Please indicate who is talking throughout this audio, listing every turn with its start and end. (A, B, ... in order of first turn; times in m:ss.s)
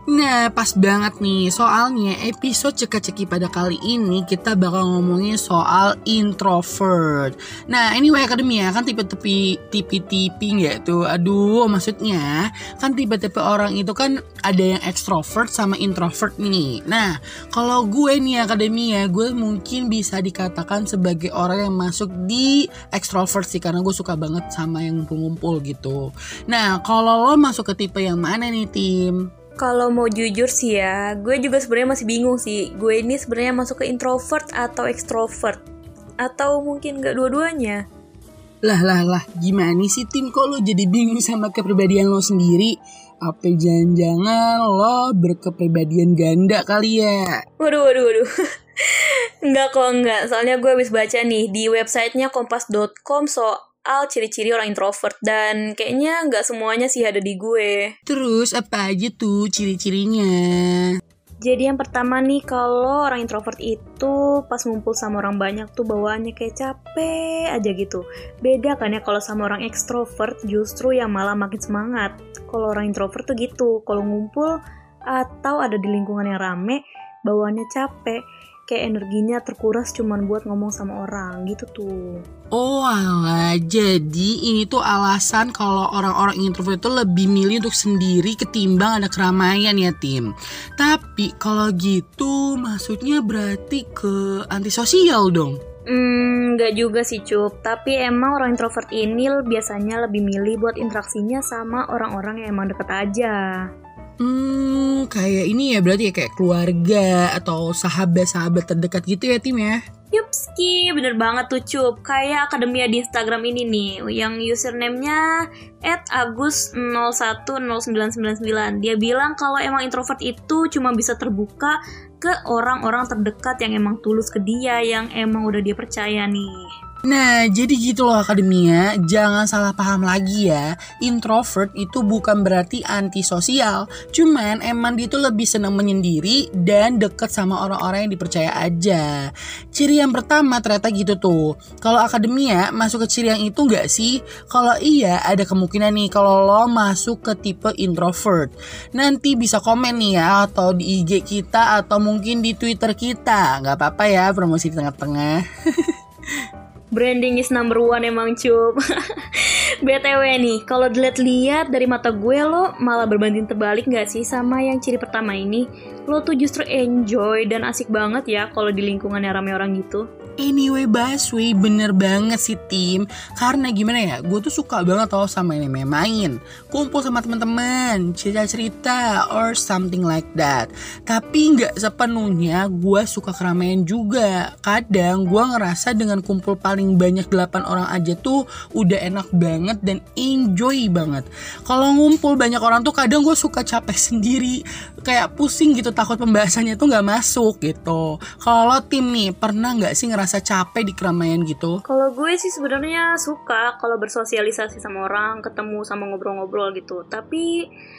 0:00.1-0:29.3 A
0:29.6-0:35.6 B
0:36.2-0:37.8 B
0:38.6-0:47.4 A
0:47.6-0:48.3 B
0:48.9-0:57.9 B
0:58.1-1:01.0 A
1:01.4-1:14.5 B
1:15.1-1:22.2 B
1:22.6-1:35.6 A
1:35.9-1:43.5 B
1:44.2-1:49.8 A
1:50.1-1:55.2 B
1:55.8-2:06.6 B
2:07.1-2:35.9 A
2:36.9-2:38.8 B
2:39.4-2:50.0 B
2:50.4-3:21.8 A
3:21.9-3:27.5 B